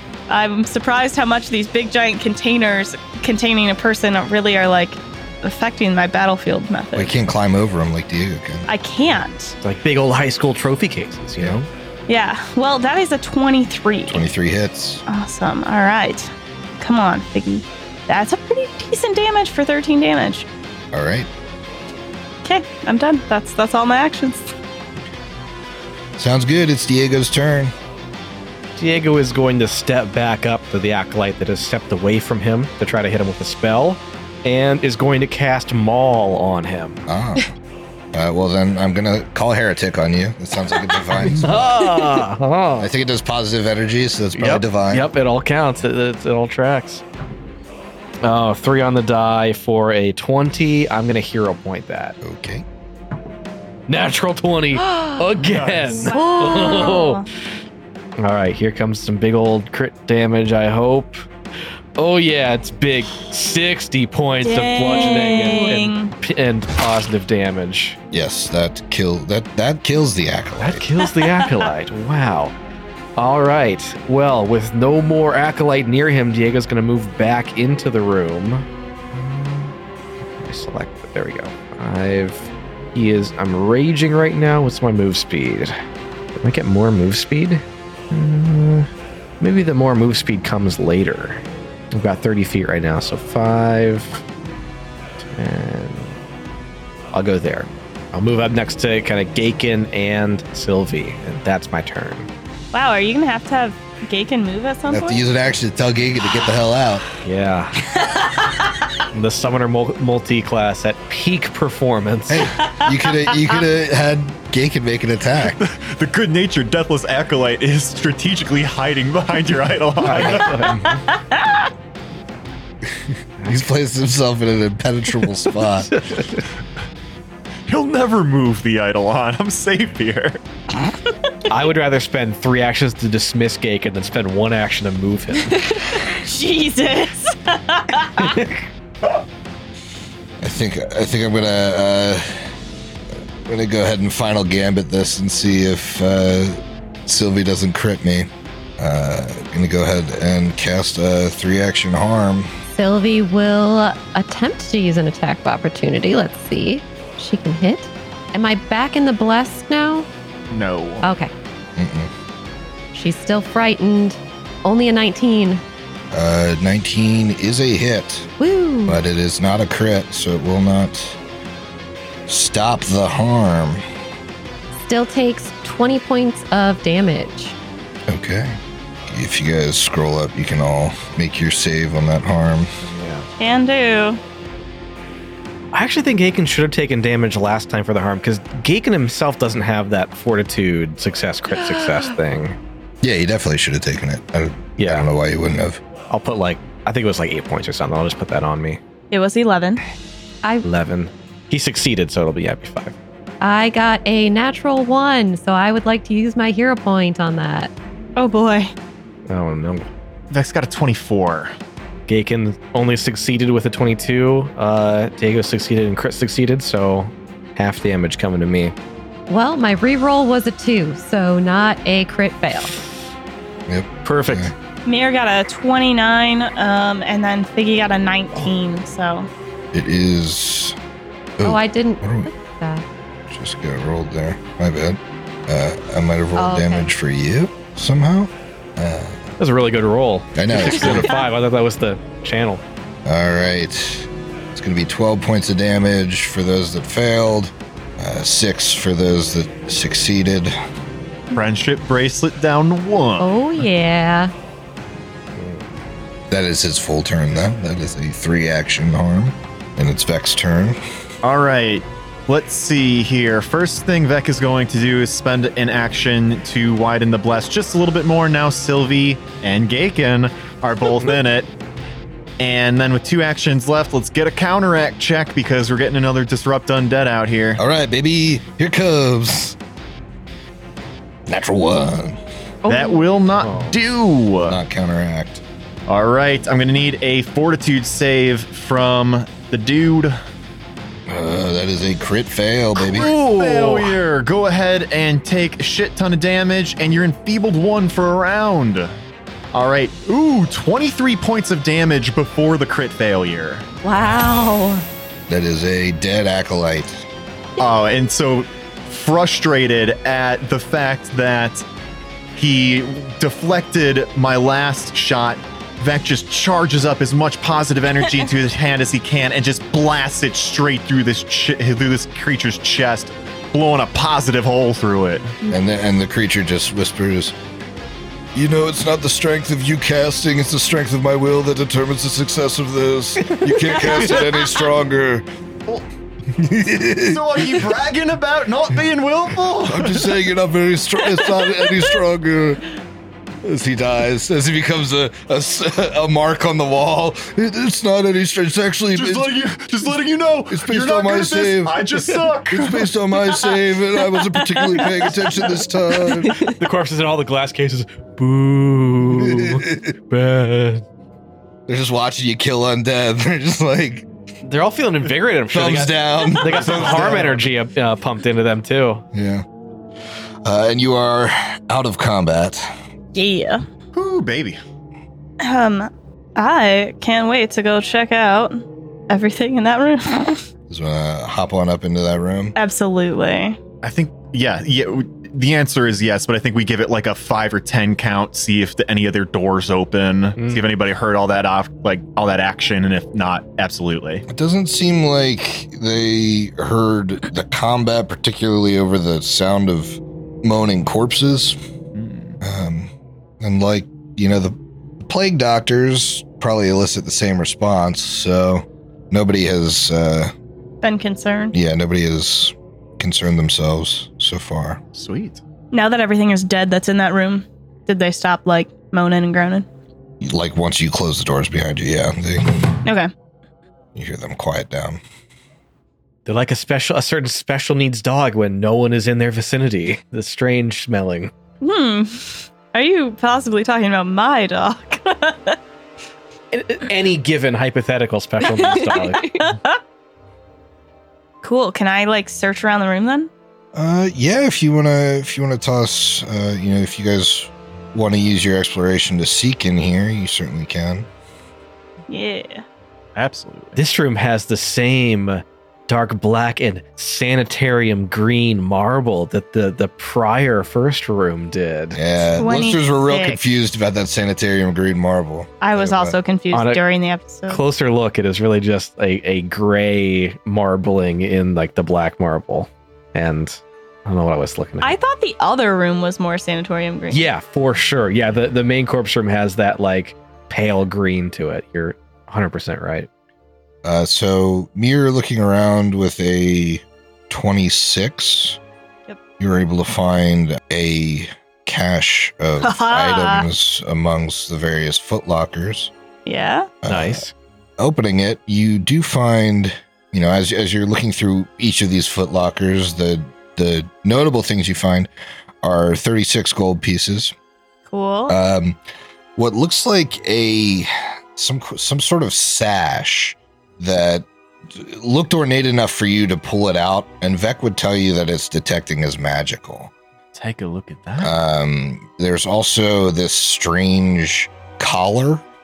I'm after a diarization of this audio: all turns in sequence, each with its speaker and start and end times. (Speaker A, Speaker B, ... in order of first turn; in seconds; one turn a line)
Speaker A: 0.3-7.1
Speaker B: 6.9-8.7
Speaker A: 8.7-9.6
Speaker C: 9.6-11.7
Speaker A: 12.1-14.3
Speaker B: 14.1-15.0
Speaker A: 15.1-20.5
Speaker B: 20.9-21.3
Speaker A: 22.4-24.5
Speaker B: 26.2-27.7
Speaker C: 28.8-37.0
Speaker B: 37.1-37.5
Speaker B: 38.1-41.8
Speaker C: 41.1-42.9
Speaker B: 42.8-45.1
Speaker C: 44.4-47.0
Speaker C: 48.2-52.2
Speaker B: 52.2-52.6
Speaker C: 53.9-57.2
Speaker D: 54.9-55.2
Speaker E: 55.4-56.1
Speaker A: 56.1-57.2
Speaker D: 56.1-57.0
Speaker C: 58.2-61.2
Speaker C: 62.0-68.0
Speaker A: 64.4-66.1
Speaker B: 68.1-70.8
Speaker C: 70.6-72.5
Speaker C: 73.2-79.7
Speaker C: 80.4-85.7
Speaker C: 86.4-88.9
Speaker C: 89.4-94.2
Speaker C: 95.3-96.2
Speaker C: 97.1-102.3
Speaker A: 102.7-105.2
Speaker B: 104.9-107.0
Speaker C: 107.2-107.8
Speaker C: 109.1-112.5
Speaker B: 112.3-115.6
Speaker E: 115.5-120.8
Speaker C: 120.0-120.9
Speaker B: 120.2-120.9
Speaker A: 120.7-121.7
Speaker B: 123.4-125.9
Speaker C: 125.8-126.4
Speaker E: 127.7-130.4
Speaker C: 131.5-135.6
Speaker A: 135.9-138.3
Speaker C: 138.2-138.7
Speaker B: 140.4-142.5
Speaker B: 143.4-152.5
Speaker D: 152.7-160.1
Speaker E: 160.5-161.1
Speaker D: 161.0-161.3
Speaker B: 161.8-162.1
Speaker D: 162.9-165.6
Speaker B: 166.1-168.3
Speaker D: 168.4-169.0
Speaker B: 168.8-171.2
Speaker B: 172.3-173.8
Speaker D: 174.8-177.5
Speaker B: 178.1-182.8
Speaker C: 182.8-183.3
Speaker A: 183.4-184.2
Speaker C: 185.7-192.6
Speaker B: 193.0-195.8
Speaker C: 194.8-195.1
Speaker C: 196.1-198.8
Speaker A: 199.1-199.8
Speaker C: 200.6-202.9
Speaker D: 203.4-207.7
Speaker A: 208.2-208.7
Speaker C: 209.3-209.9
Speaker E: 210.3-211.5
Speaker C: 212.1-218.7
Speaker D: 219.3-222.8
Speaker B: 223.7-224.5
Speaker C: 224.0-224.5
Speaker A: 224.8-229.3
Speaker B: 229.7-230.8
Speaker B: 231.4-232.3
Speaker D: 231.4-232.8
Speaker B: 233.3-239.3
Speaker D: 236.3-236.9
Speaker C: 239.4-242.6
Speaker B: 240.3-241.2
Speaker B: 243.0-250.5
Speaker E: 251.3-253.3
Speaker D: 253.2-254.3
Speaker C: 255.3-255.6
Speaker B: 256.3-260.8
Speaker E: 261.2-271.5
Speaker E: 272.4-277.6
Speaker B: 277.6-279.6
Speaker B: 281.3-282.2
Speaker D: 282.6-283.0
Speaker E: 282.6-284.6
Speaker C: 283.4-283.8
Speaker B: 284.4-285.4
Speaker E: 285.9-290.2
Speaker B: 291.1-293.1
Speaker E: 292.8-298.9
Speaker C: 292.9-294.0
Speaker E: 299.5-303.6
Speaker D: 303.8-304.8
Speaker B: 305.3-307.1
Speaker E: 307.6-311.6
Speaker E: 312.3-325.4
Speaker B: 325.5-327.3
Speaker B: 328.3-335.2
Speaker B: 336.3-337.6
Speaker E: 336.9-340.1
Speaker B: 339.6-342.6
Speaker B: 343.4-349.4
Speaker E: 348.9-352.9
Speaker B: 350.5-356.4
Speaker A: 354.3-354.9
Speaker C: 356.3-360.8
Speaker B: 359.1-359.9
Speaker B: 361.7-364.1
Speaker C: 364.4-369.0
Speaker B: 365.5-367.3
Speaker E: 366.6-367.4
Speaker B: 369.1-369.4
Speaker B: 370.4-372.7
Speaker A: 373.1-373.6
Speaker E: 373.9-374.6
Speaker A: 375.4-380.4
Speaker B: 380.7-382.5
Speaker A: 382.6-383.6
Speaker E: 383.8-394.2
Speaker C: 390.4-390.6
Speaker B: 394.3-401.6
Speaker E: 401.9-402.4
Speaker B: 402.4-410.3
Speaker A: 410.8-411.5
Speaker B: 411.5-414.8
Speaker E: 414.9-415.4
Speaker A: 415.7-419.6
Speaker B: 420.2-422.7
Speaker A: 422.8-423.1
Speaker B: 423.9-425.0
Speaker C: 426.2-431.3
Speaker A: 431.6-435.6
Speaker C: 436.5-439.3
Speaker A: 438.6-439.8
Speaker A: 441.4-443.3
Speaker B: 443.7-451.1
Speaker A: 452.1-452.6
Speaker E: 453.1-453.8
Speaker C: 453.8-462.0
Speaker B: 461.9-466.2
Speaker A: 462.4-463.4
Speaker A: 465.6-467.6
Speaker C: 466.5-466.8
Speaker C: 467.5-474.9
Speaker A: 474.8-477.2
Speaker C: 477.1-483.1
Speaker B: 483.8-488.6
Speaker B: 489.4-495.9
Speaker A: 492.6-493.4
Speaker A: 496.2-496.7
Speaker B: 496.8-497.2
Speaker C: 496.9-497.3
Speaker B: 497.8-505.1
Speaker B: 505.6-507.3
Speaker A: 507.9-508.4
Speaker B: 508.3-508.8
Speaker B: 509.4-519.9
Speaker E: 520.3-521.4
Speaker B: 521.2-525.4